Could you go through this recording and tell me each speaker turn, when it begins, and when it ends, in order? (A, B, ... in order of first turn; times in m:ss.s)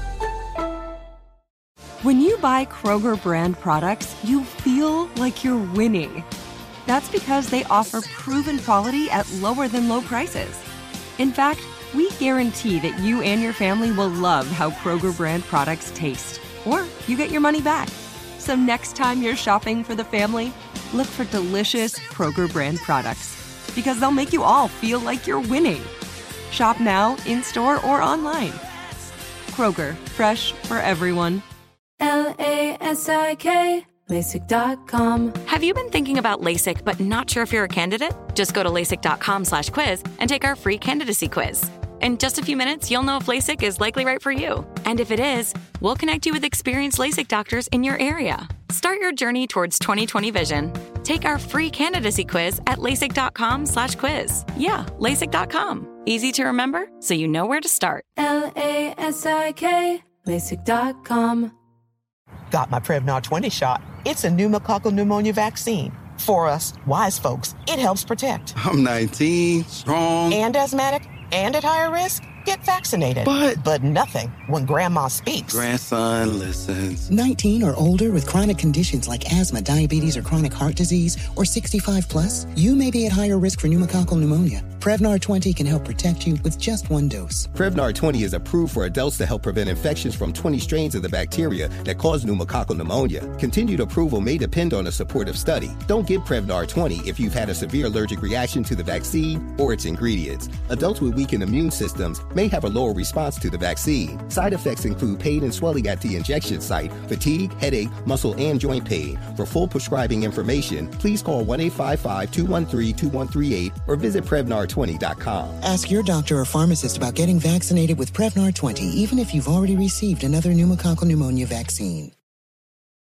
0:02.0-0:06.2 A
0:06.8-0:10.6 A
0:11.2-0:25.9 A
0:26.5-0:28.6 A
0:29.5-0:31.4 A
0:32.0-0:35.4 B
0:35.4-0:58.0 C
0:58.2-1:01.5 B
1:02.5-1:08.5 D
1:08.6-1:10.4 E
1:10.3-1:15.6 D
1:13.2-1:13.6 E
1:15.5-1:17.1 E
1:17.1-1:27.5 F
1:27.5-1:55.6 G
1:55.6-2:02.1 F